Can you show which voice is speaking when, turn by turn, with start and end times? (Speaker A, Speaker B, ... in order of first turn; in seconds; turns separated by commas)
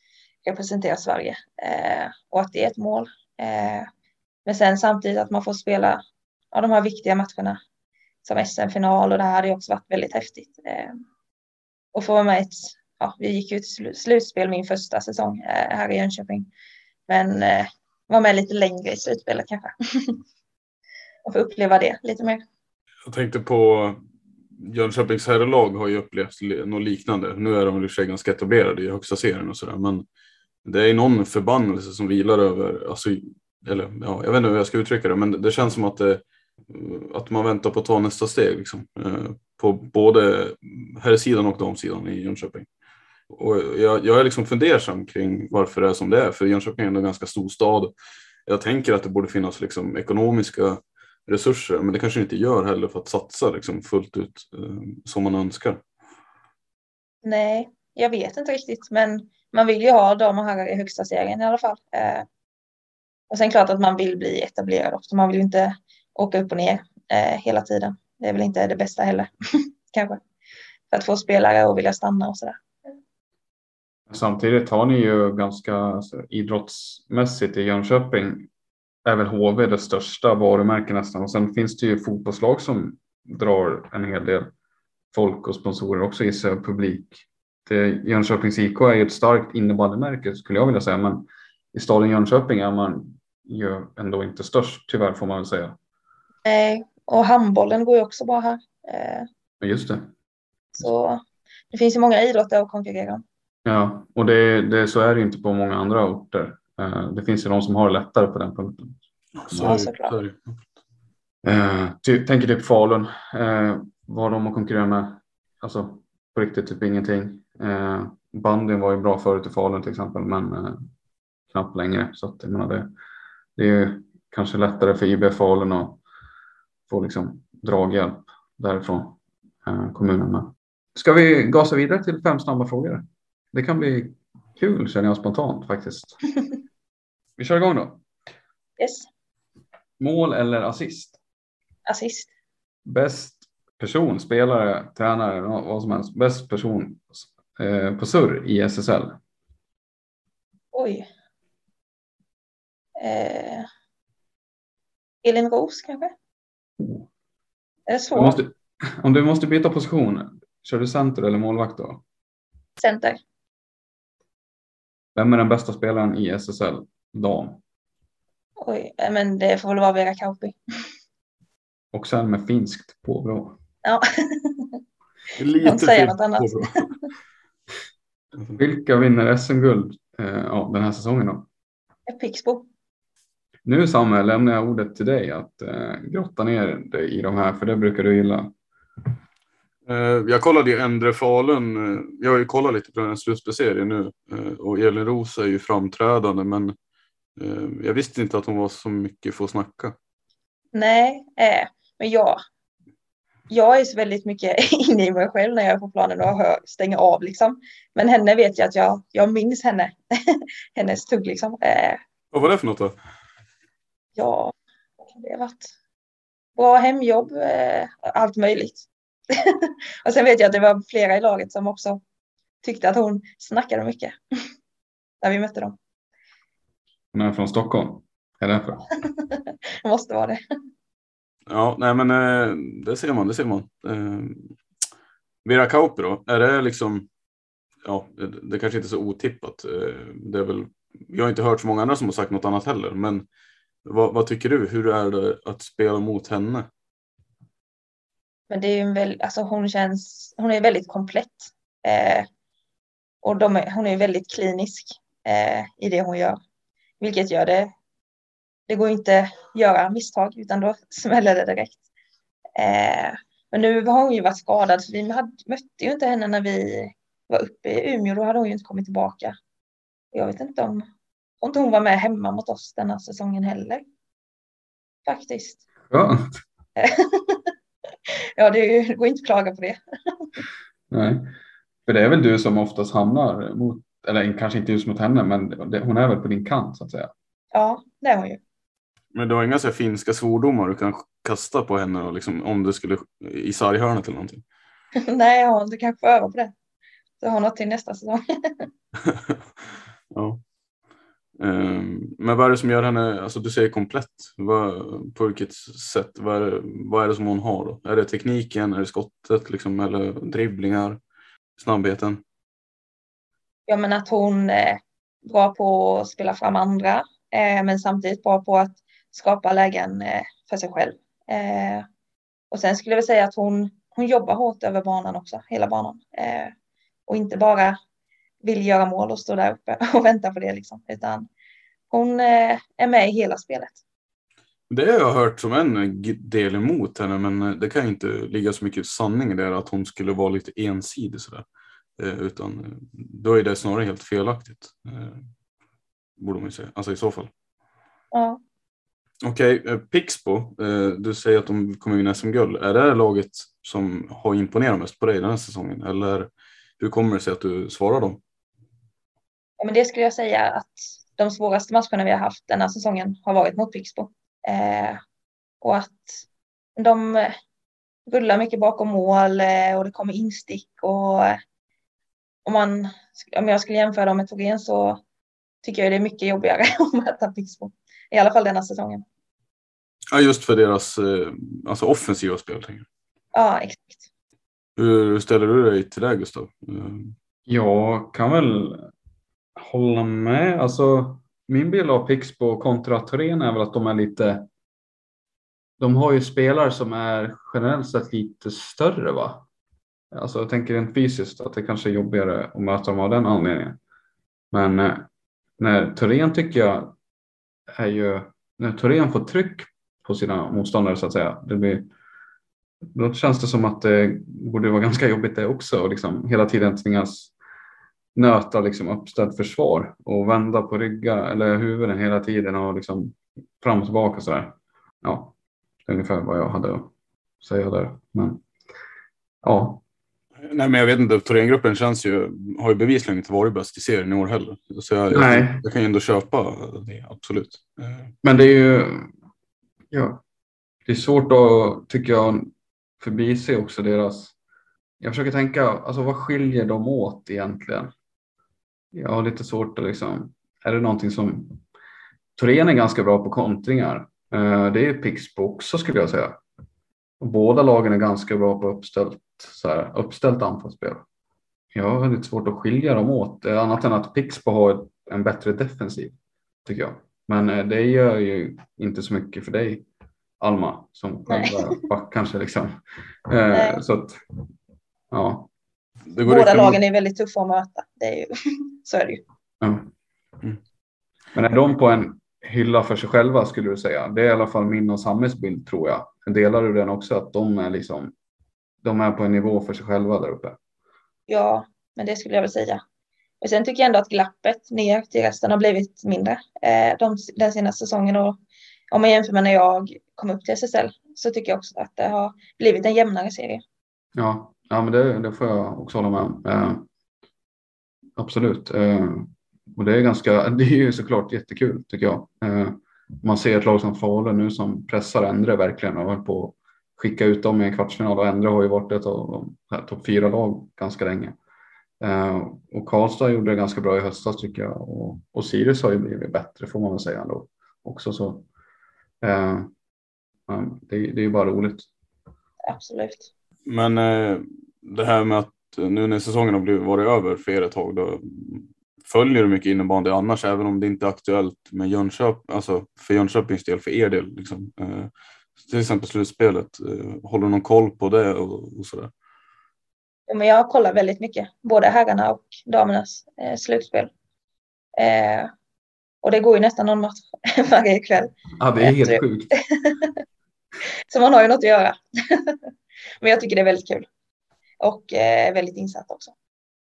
Speaker A: 0.4-3.9, Speaker A: 4.5-7.6, Speaker A: 8.2-10.9, Speaker A: 11.9-16.5, Speaker A: 17.1-20.2, Speaker A: 21.2-22.4, Speaker B: 23.1-24.0, Speaker B: 24.6-30.0, Speaker B: 30.6-42.7, Speaker B: 43.3-47.9, Speaker B: 48.5-55.8, Speaker A: 57.2-62.2, Speaker A: 63.3-69.3, Speaker A: 69.9-70.2, Speaker A: 70.9-72.6, Speaker C: 74.1-78.5, Speaker C: 79.0-84.5, Speaker C: 85.1-95.8, Speaker A: 96.4-99.3, Speaker C: 99.6-100.1, Speaker A: 100.7-101.2, Speaker A: 101.7-103.2, Speaker C: 103.6-109.0, Speaker B: 109.4-110.6, Speaker C: 109.5-109.8, Speaker A: 109.5-110.1, Speaker C: 111.4-120.8, Speaker C: 121.5-122.9, Speaker C: 123.5-126.0, Speaker C: 126.9-136.2, Speaker C: 137.4-138.0, Speaker A: 138.8-139.1, Speaker C: 140.0-141.2, Speaker A: 141.9-142.3, Speaker C: 142.8-149.2, Speaker A: 150.7-151.1, Speaker A: 153.0-153.7, Speaker A: 155.2-156.1, Speaker C: 156.8-157.1, Speaker A: 157.9-158.4, Speaker C: 158.1-162.0, Speaker A: 162.8-163.2, Speaker C: 165.2-167.6, Speaker A: 168.6-170.6, Speaker C: 171.9-173.6, Speaker A: 173.8-174.8, Speaker B: 175.4-176.9, Speaker A: 175.6-176.9, Speaker C: 178.6-181.5, Speaker A: 182.1-182.6, Speaker C: 183.6-188.5, Speaker B: 189.9-196.7, Speaker B: 197.4-199.9, Speaker A: 200.7-202.4, Speaker A: 203.5-212.0, Speaker B: 212.3-212.9, Speaker A: 214.2-215.7, Speaker A: 216.6-222.0, Speaker A: 222.6-224.2, Speaker A: 225.2-225.8, Speaker C: 227.1-228.9, Speaker A: 229.1-230.4, Speaker B: 231.5-234.6, Speaker B: 235.4-237.1, Speaker B: 237.8-243.2, Speaker B: 243.8-246.7, Speaker A: 248.5-252.2, Speaker A: 253.2-256.4, Speaker A: 257.0-257.7, Speaker A: 258.7-261.8, Speaker A: 262.6-269.4, Speaker A: 270.1-270.9, Speaker A: 271.4-273.8, Speaker A: 275.1-275.6, Speaker C: 275.9-276.3, Speaker A: 276.8-277.5, Speaker A: 278.4-280.3, Speaker C: 280.9-281.3, Speaker C: 281.9-287.1, Speaker A: 287.5-288.4, Speaker B: 289.1-294.4, Speaker A: 295.1-296.5, Speaker A: 297.2-298.7, Speaker B: 299.0-299.4, Speaker B: 300.1-300.4, Speaker B: 301.4-311.0, Speaker B: 311.6-312.2, Speaker A: 313.7-321.9, Speaker A: 322.5-326.5, Speaker A: 327.1-327.8, Speaker A: 328.4-331.3, Speaker A: 331.9-333.8, Speaker B: 334.7-341.4, Speaker B: 342.0-345.2, Speaker B: 346.2-347.3, Speaker A: 348.1-348.4, Speaker B: 349.2-356.3, Speaker B: 356.8-358.2, Speaker A: 359.6-365.0, Speaker A: 365.6-366.2, Speaker A: 366.8-367.4, Speaker A: 368.1-371.4, Speaker A: 372.4-375.0, Speaker A: 375.6-379.0, Speaker B: 380.1-382.9, Speaker A: 383.3-384.0, Speaker B: 384.8-387.1, Speaker C: 387.5-388.9, Speaker C: 389.6-394.5, Speaker C: 395.8-399.4, Speaker C: 400.1-403.8, Speaker C: 404.5-405.1, Speaker C: 405.6-406.9, Speaker C: 407.7-411.9, Speaker C: 412.9-417.3, Speaker C: 418.1-425.3, Speaker C: 425.9-428.4, Speaker C: 429.4-429.8, Speaker B: 430.4-438.1, Speaker C: 435.1-435.6, Speaker C: 438.2-439.1, Speaker C: 439.9-440.2, Speaker C: 440.9-444.3, Speaker C: 445.0-447.9, Speaker C: 448.9-451.6, Speaker C: 452.4-456.4, Speaker C: 457.2-461.0, Speaker C: 461.7-469.8, Speaker C: 470.4-474.2, Speaker A: 471.3-471.7, Speaker A: 473.5-473.8, Speaker C: 475.1-475.5, Speaker B: 476.1-476.8, Speaker A: 476.2-478.3, Speaker A: 478.8-479.2, Speaker C: 479.6-479.9, Speaker C: 481.3-488.1, Speaker C: 488.8-490.6, Speaker A: 491.3-492.8, Speaker A: 493.4-498.4, Speaker A: 498.9-503.6, Speaker C: 504.1-506.9, Speaker C: 508.2-521.4, Speaker C: 522.0-528.5, Speaker C: 529.2-529.7, Speaker C: 530.5-531.9, Speaker A: 532.7-533.3, Speaker B: 533.6-549.1, Speaker A: 550.3-554.1, Speaker A: 555.0-555.5, Speaker A: 556.2-559.2, Speaker C: 558.6-559.5, Speaker A: 561.1-562.6, Speaker A: 563.2-564.0, Speaker A: 564.8-566.3